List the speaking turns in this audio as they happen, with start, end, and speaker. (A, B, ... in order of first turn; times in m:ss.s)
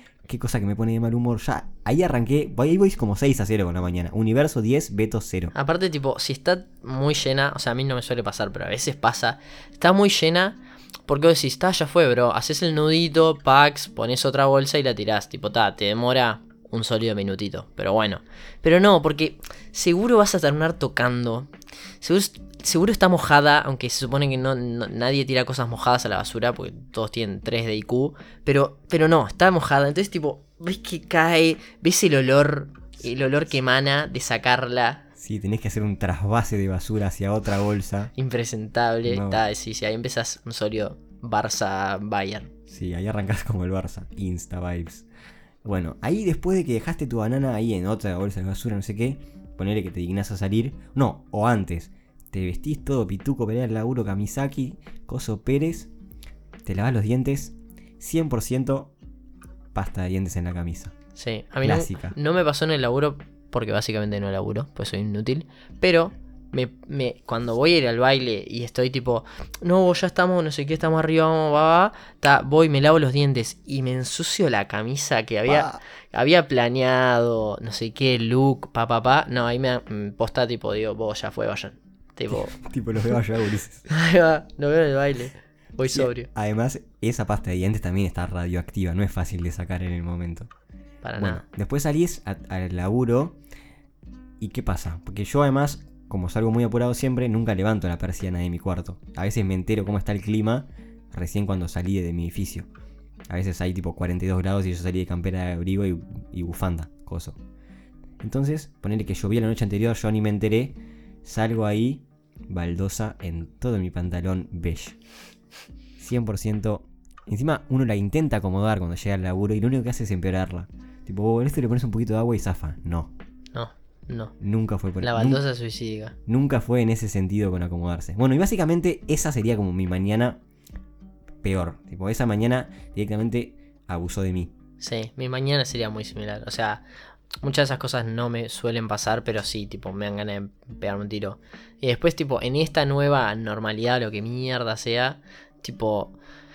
0:00.3-0:05.5 A
0:05.5-0:35.1 B
0:35.2-0:38.1 A
0:38.2-0:42.5 B
0:39.1-0:39.4 A
0:42.7-0:45.1 A
0:45.6-0:55.9 A
0:56.6-0:58.9 A
0:59.7-1:01.0 A
1:01.2-1:22.6 B
1:01.6-1:02.2 A
1:15.5-1:15.8 A
1:22.3-1:23.9 A
1:23.9-1:26.3 B
1:25.9-1:30.5 A
1:31.0-1:31.4 B
1:31.2-1:33.4 A
1:34.4-1:42.7 A
1:43.3-1:47.4 A
1:48.2-1:55.0 A
1:56.0-2:03.1 A
2:03.5-2:04.3 B
2:04.4-2:05.4 A
2:05.0-2:06.2 B
2:06.3-2:10.4 A
2:11.4-2:14.5 A
2:14.8-2:16.8 B
2:17.4-2:26.2 B